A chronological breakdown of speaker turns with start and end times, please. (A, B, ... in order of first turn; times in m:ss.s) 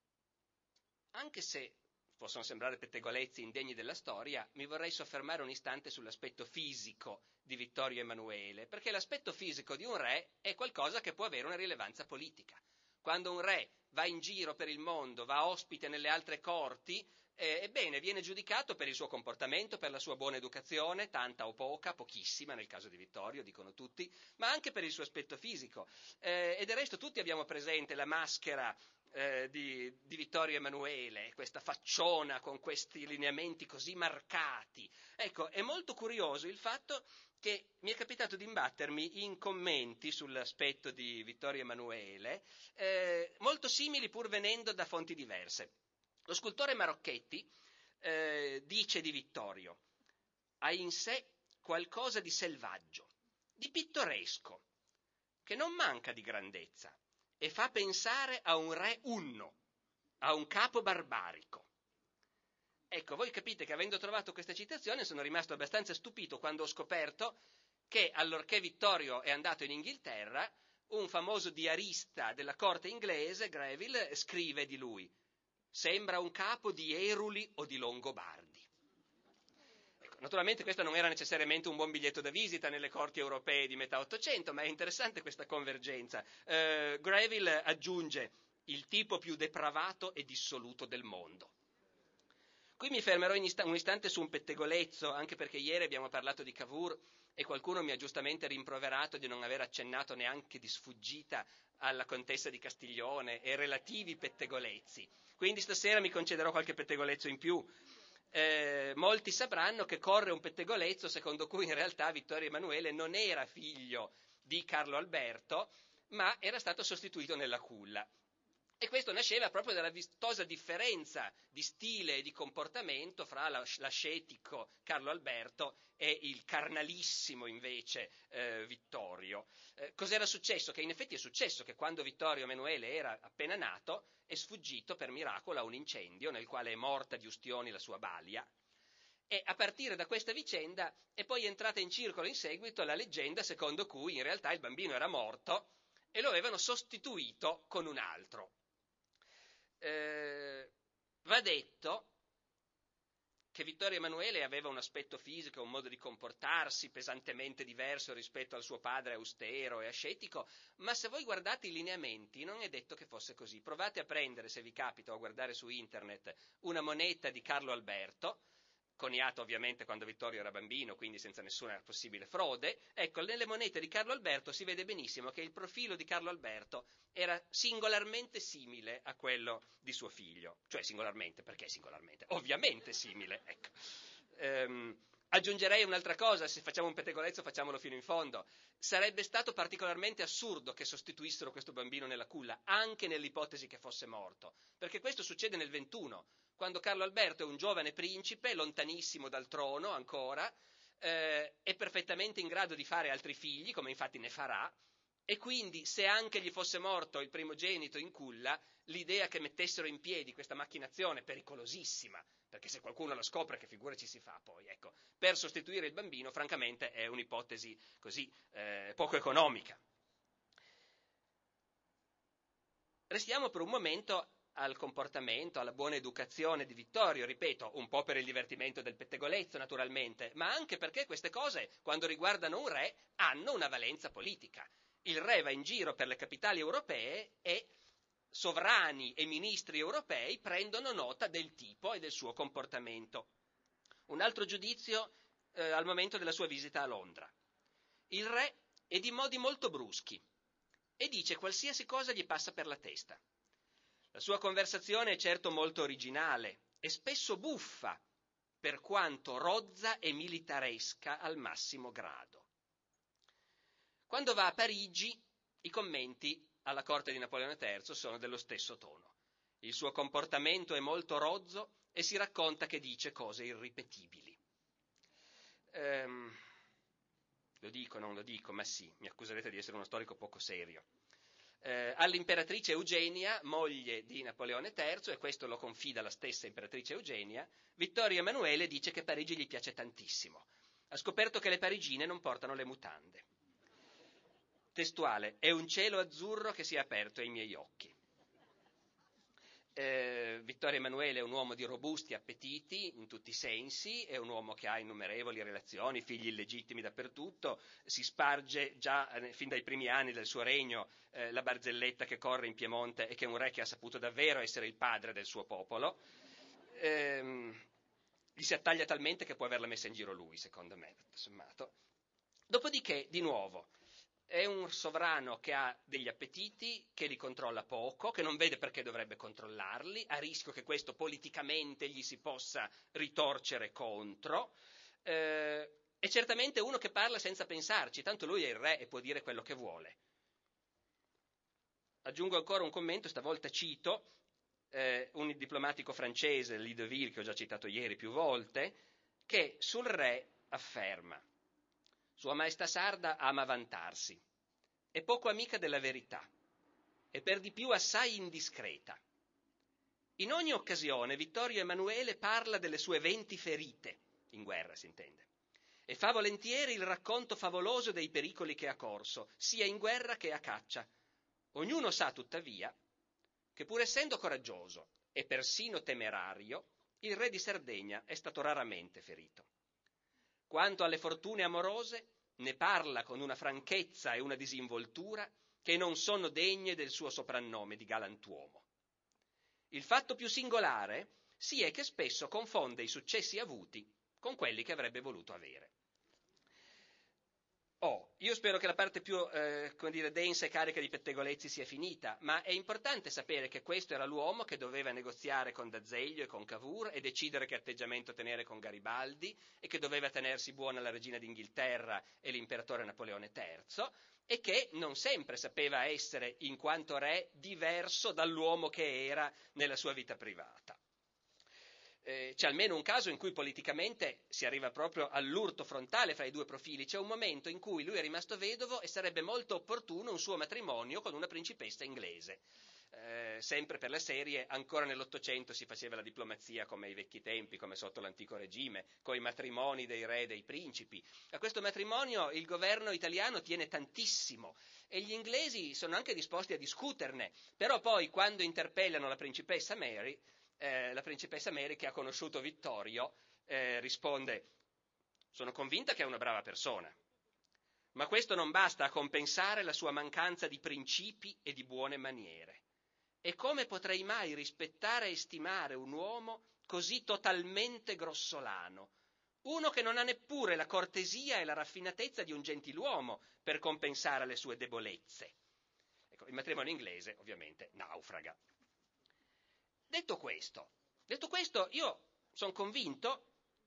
0:01.1-0:45.7 A
0:46.3-0:47.5 A
0:48.0-0:49.8 A
0:50.6-0:54.6 A
0:55.4-0:59.6 A
1:00.2-1:01.7 A
1:02.9-1:07.4 A
1:07.9-1:15.1 A
1:15.7-1:18.7 A
1:20.0-1:31.5 A
1:32.8-1:47.7 A
1:48.3-1:58.1 A
1:58.8-2:18.5 A
2:19.3-2:28.5 A
2:29.8-2:30.7 A
2:31.2-2:32.1 A
2:33.5-2:48.4 A
2:49.0-3:03.8 A
3:04.4-3:24.8 A
3:25.3-3:39.8 A
3:43.1-3:57.7 A
3:58.3-4:03.3 A
4:04.1-4:07.3 A
4:08.1-4:10.2 A
4:11.0-4:13.2 A
4:14.1-4:18.0 A
4:18.6-4:22.5 A
4:24.1-4:34.4 A
4:35.7-4:36.4 A
4:37.6-4:40.9 A
4:41.6-4:53.3 A
4:54.7-4:57.9 A
4:59.8-5:16.0 A
5:16.8-5:17.6 A
5:18.4-5:21.7 A
5:22.5-5:23.7 A
5:24.3-5:40.0 A
5:42.0-5:44.1 A
5:44.7-5:48.8 A
5:49.3-5:51.2 A
5:52.2-5:54.2 A
5:54.9-5:56.3 A
5:57.1-5:59.0 A
6:00.2-6:05.3 A
6:05.9-6:10.9 A
6:11.5-6:12.7 A
6:13.6-6:19.5 A
6:20.5-6:28.6 A
6:29.7-6:35.7 A
6:37.8-7:00.8 A
7:02.0-7:34.5 A
7:35.3-7:37.0 A
7:38.0-7:42.6 A
7:43.2-7:48.9 A
7:49.4-7:55.4 A
7:56.1-7:58.4 A
7:59.9-8:03.3 A